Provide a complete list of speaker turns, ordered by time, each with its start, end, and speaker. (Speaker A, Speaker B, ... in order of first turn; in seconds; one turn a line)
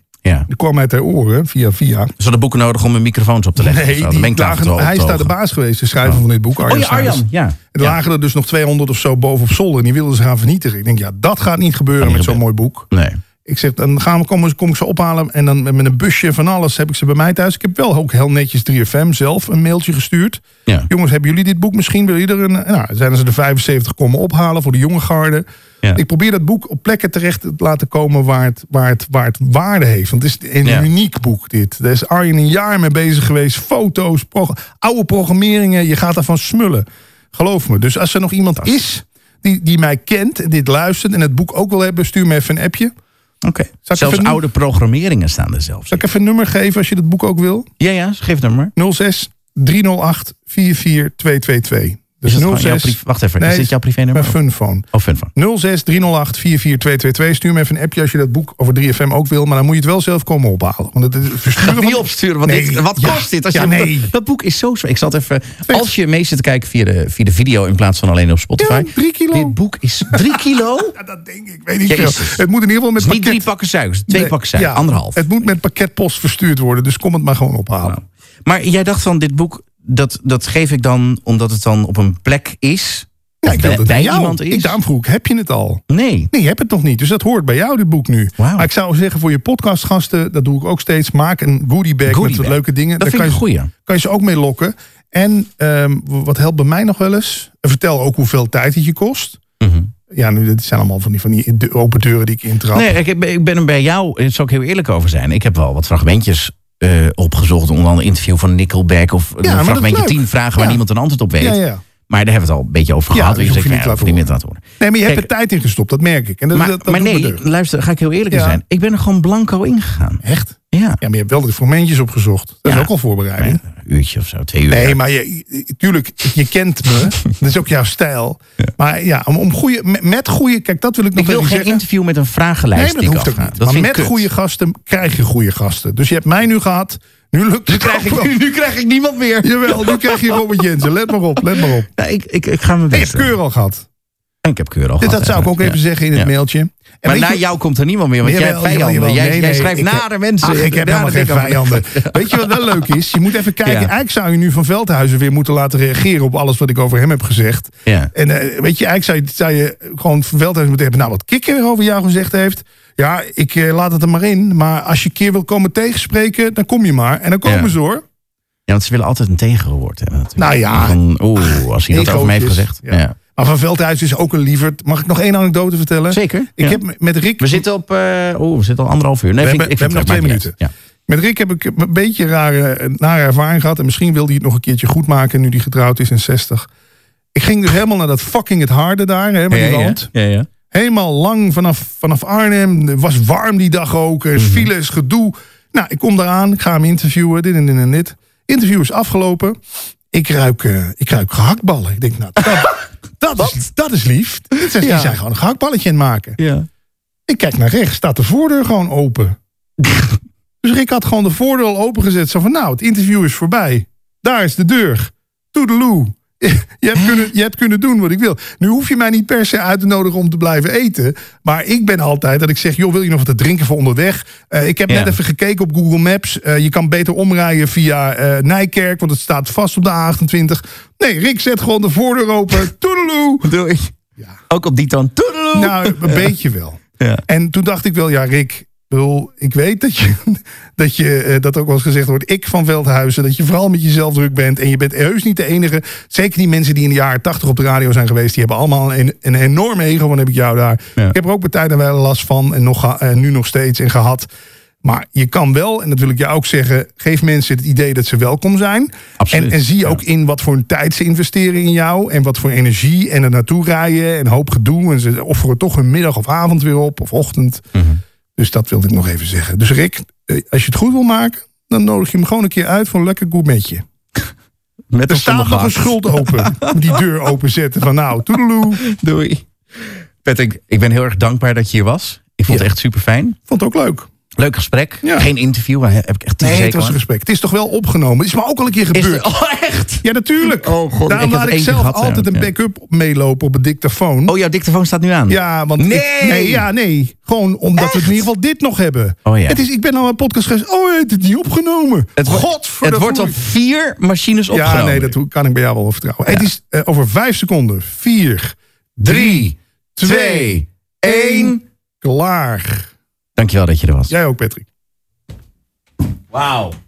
Speaker A: 0.5-2.1
Speaker B: 2.2-5.3
Speaker A: 3.6-12.9
Speaker B: 6.0-8.0
Speaker B: 12.0-13.2
Speaker A: 13.4-42.9
Speaker B: 43.4-46.0
Speaker A: 43.9-44.4
Speaker A: 45.9-47.7
Speaker B: 47.8-48.7
Speaker A: 48.8-64.1
Speaker B: 52.2-54.4
Speaker B: 54.9-55.3
Speaker B: 61.5-71.0
Speaker A: 68.6-69.6
Speaker A: 70.1-70.4
Speaker A: 71.0-73.4
Speaker B: 71.9-72.4
Speaker B: 73.0-75.2
Speaker A: 74.1-78.0
Speaker B: 77.8-84.8
Speaker A: 83.4-99.4
Speaker B: 85.9-86.3
Speaker B: 88.4-88.7
Speaker B: 92.1-93.7
Speaker B: 99.6-99.9
Speaker A: 100.1-103.0
Speaker B: 102.7-115.3
Speaker A: 109.4-110.8
Speaker A: 111.4-111.8
Speaker A: 113.1-114.3
Speaker A: 114.8-117.4
Speaker B: 116.5-121.0
Speaker A: 118.3-118.6
Speaker A: 120.2-123.6
Speaker B: 122.7-125.0
Speaker A: 124.7-131.8
Speaker B: 131.2-134.3
Speaker A: 132.8-138.3
Speaker B: 137.7-140.4
Speaker A: 139.4-141.9
Speaker B: 141.6-143.3
Speaker A: 142.9-143.9
Speaker B: 144.4-146.3
Speaker A: 145.0-147.4
Speaker B: 147.0-153.0
Speaker A: 148.2-168.0
Speaker B: 153.6-153.9
Speaker B: 157.9-158.1
Speaker B: 167.5-167.8
Speaker B: 168.7-173.2
Speaker A: 170.4-177.6
Speaker B: 176.1-176.8
Speaker B: 177.4-180.7
Speaker A: 179.4-180.6
Speaker A: 181.1-186.7
Speaker A: 187.3-190.1
Speaker B: 189.5-190.5
Speaker A: 190.7-199.6
Speaker B: 194.4-194.7
Speaker A: 200.1-206.4
Speaker B: 204.6-205.2
Speaker B: 206.4-206.7
Speaker A: 207.3-209.4
Speaker A: 210.6-233.5
Speaker B: 224.9-225.2
Speaker B: 233.4-233.9
Speaker B: 234.5-236.3
Speaker A: 235.5-254.3
Speaker B: 237.0-237.2
Speaker A: 254.8-267.7
Speaker B: 259.2-260.0
Speaker B: 267.7-268.0
Speaker A: 268.4-273.9
Speaker B: 274.9-276.8
Speaker A: 275.1-278.8
Speaker B: 278.8-283.4
Speaker A: 283.5-284.1
Speaker B: 284.4-287.0
Speaker A: 285.0-285.3
Speaker A: 286.4-289.3
Speaker B: 288.9-292.5
Speaker A: 290.0-294.3
Speaker B: 294.3-296.7
Speaker A: 295.3-303.4
Speaker B: 297.8-298.2
Speaker B: 299.2-299.6
Speaker B: 302.2-305.2
Speaker A: 304.5-312.9
Speaker B: 309.0-311.6
Speaker B: 313.4-314.1
Speaker A: 314.1-314.7
Speaker B: 316.3-316.8